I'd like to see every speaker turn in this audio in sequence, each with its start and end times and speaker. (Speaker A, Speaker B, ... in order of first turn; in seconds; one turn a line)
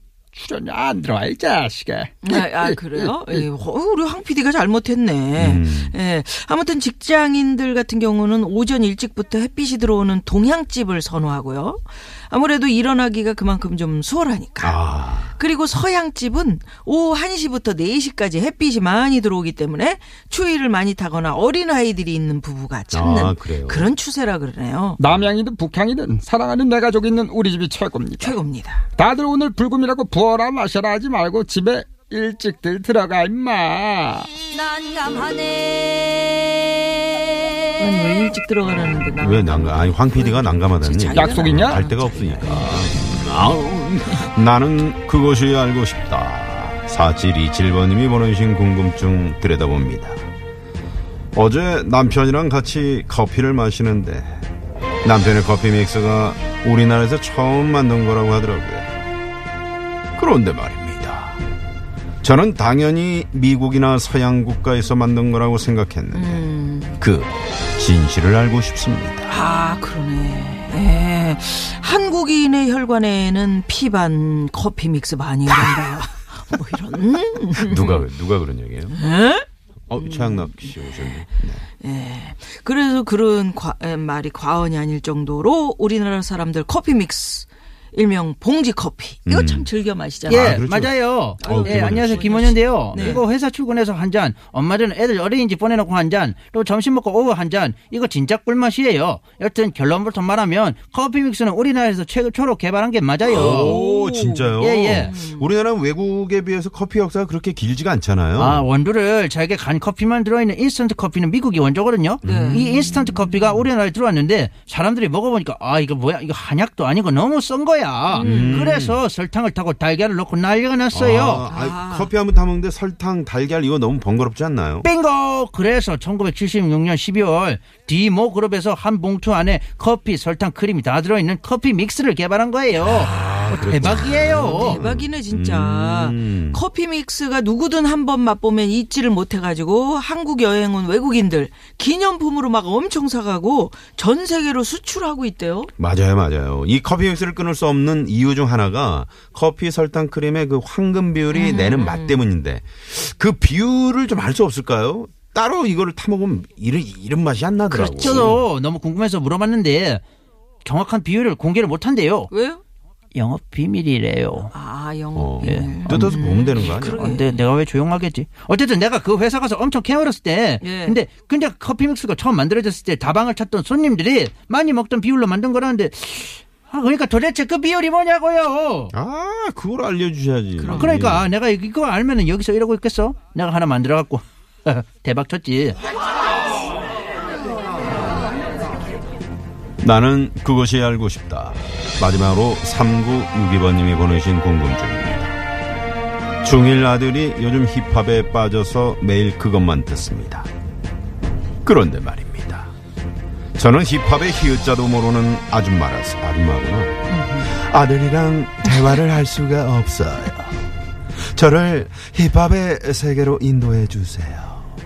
Speaker A: 0.3-3.4
Speaker B: 2.2-14.8
Speaker C: 5.4-6.0
Speaker C: 14.6-15.4
Speaker B: 15.3-25.0
Speaker C: 22.9-23.9
Speaker A: 25.0-28.4
Speaker B: 28.2-28.9
Speaker A: 29.0-34.3
Speaker B: 37.8-43.5
Speaker C: 39.2-50.2
Speaker A: 41.1-41.8
Speaker C: 51.3-54.4
Speaker C: 55.0-58.9
Speaker C: 60.1-61.4
Speaker C: 62.2-66.5
Speaker B: 66.1-67.0
Speaker C: 67.0-69.3
Speaker B: 69.3-78.1
Speaker C: 77.6-79.0
Speaker B: 78.9-79.5
Speaker C: 79.9-81.7
Speaker B: 80.0-81.2
Speaker B: 81.8-90.7
Speaker C: 89.3-89.7
Speaker C: 90.3-92.4
Speaker D: 90.3-103.8
Speaker B: 91.4-93.2
Speaker C: 103.3-108.7
Speaker B: 103.3-105.5
Speaker D: 104.6-105.1
Speaker D: 108.4-121.5
Speaker C: 112.2-112.6
Speaker B: 112.2-113.3
Speaker B: 118.1-118.7
Speaker C: 118.2-119.0
Speaker C: 120.9-124.9
Speaker B: 121.5-122.1
Speaker D: 124.8-134.8
Speaker C: 132.8-136.6
Speaker B: 134.2-145.7
Speaker C: 145.8-158.4
Speaker B: 151.3-152.2
Speaker D: 157.7-160.0
Speaker D: 160.7-162.3
Speaker B: 162.3-162.6
Speaker D: 163.1-164.5
Speaker B: 164.5-167.4
Speaker C: 165.2-167.0
Speaker D: 165.4-178.9
Speaker B: 170.6-171.0
Speaker C: 178.9-181.3
Speaker B: 180.6-181.0
Speaker D: 180.7-185.8
Speaker C: 189.8-195.3
Speaker C: 196.4-200.5
Speaker C: 201.7-202.7
Speaker C: 203.6-210.6
Speaker B: 207.1-207.6
Speaker C: 211.2-214.7